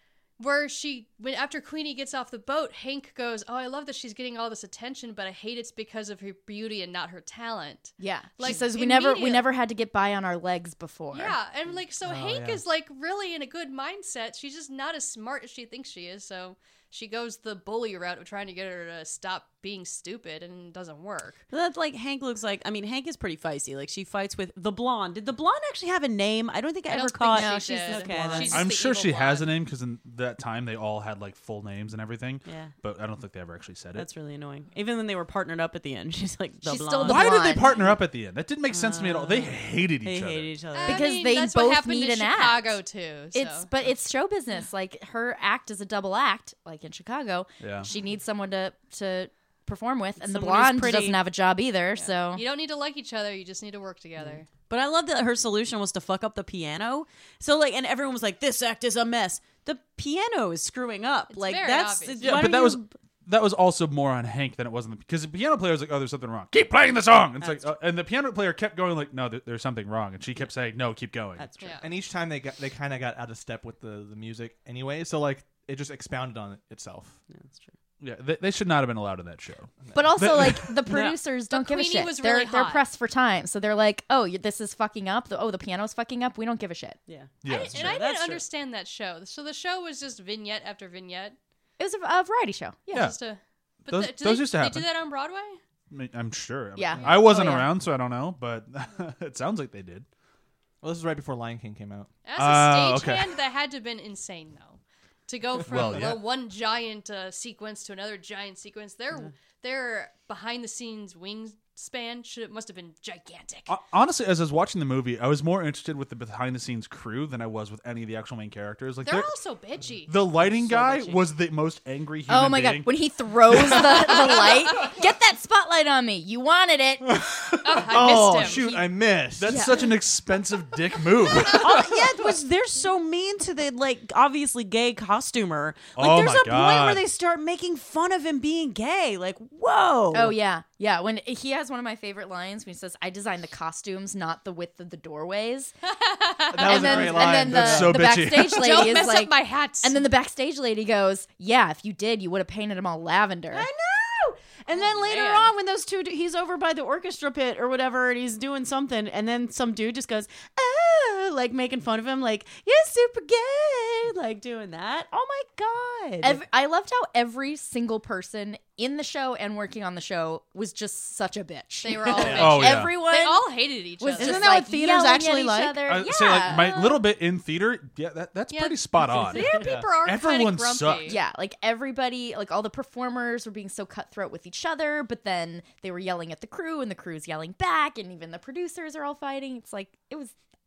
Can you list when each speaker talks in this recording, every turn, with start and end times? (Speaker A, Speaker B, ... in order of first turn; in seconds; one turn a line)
Speaker A: 0.4-9.5
Speaker B: 8.0-11.3
Speaker A: 11.1-21.4
Speaker C: 12.0-12.6
Speaker D: 21.5-28.6
Speaker A: 26.9-29.5
Speaker B: 27.3-28.6
Speaker E: 28.5-34.1
Speaker D: 32.4-32.7
Speaker D: 33.9-37.6
Speaker B: 36.6-37.8
Speaker E: 37.0-40.5
Speaker D: 38.7-41.1
Speaker A: 40.7-43.7
Speaker B: 40.9-42.8
Speaker B: 43.3-52.4
Speaker E: 47.6-47.9
Speaker D: 50.2-51.2
Speaker A: 51.9-54.5
Speaker D: 54.6-62.9
Speaker A: 61.3-62.5
Speaker E: 62.2-71.5
Speaker D: 67.4-67.7
Speaker D: 71.4-71.9
Speaker C: 71.8-77.2
Speaker D: 77.3-77.7
Speaker E: 78.0-80.9
Speaker C: 79.8-80.2
Speaker B: 79.9-87.0
Speaker D: 80.9-81.2
Speaker A: 81.5-82.8
Speaker D: 87.1-88.4
Speaker E: 87.4-88.0
Speaker A: 87.5-91.3
Speaker B: 91.8-93.1
Speaker A: 92.9-95.6
Speaker E: 92.9-93.2
Speaker E: 93.9-94.9
Speaker E: 95.9-100.0
Speaker B: 96.8-97.7
Speaker C: 100.8-102.1
Speaker A: 102.2-113.7
Speaker E: 102.3-103.3
Speaker E: 105.7-106.2
Speaker E: 113.7-119.3
Speaker A: 119.0-120.1
Speaker E: 120.0-122.9
Speaker D: 120.5-121.2
Speaker B: 122.3-127.2
Speaker E: 123.5-124.4
Speaker E: 127.3-127.8
Speaker A: 127.6-128.7
Speaker C: 127.9-129.7
Speaker B: 128.5-128.8
Speaker E: 129.4-131.9
Speaker B: 129.4-129.9
Speaker D: 131.5-140.3
Speaker E: 135.9-137.0
Speaker B: 140.1-145.7
Speaker A: 145.8-147.1
Speaker C: 146.5-148.1
Speaker B: 146.6-153.7
Speaker E: 147.2-148.9
Speaker A: 148.3-150.0
Speaker D: 153.5-166.4
Speaker A: 154.7-155.5
Speaker B: 166.2-173.4
Speaker A: 171.8-174.5
Speaker C: 172.1-172.6
Speaker E: 172.3-172.9
Speaker B: 174.0-177.0
Speaker D: 174.2-175.9
Speaker E: 175.8-179.5
Speaker A: 178.5-181.2
Speaker D: 179.3-179.7
Speaker C: 179.5-179.9
Speaker E: 180.0-181.2
Speaker B: 181.1-190.3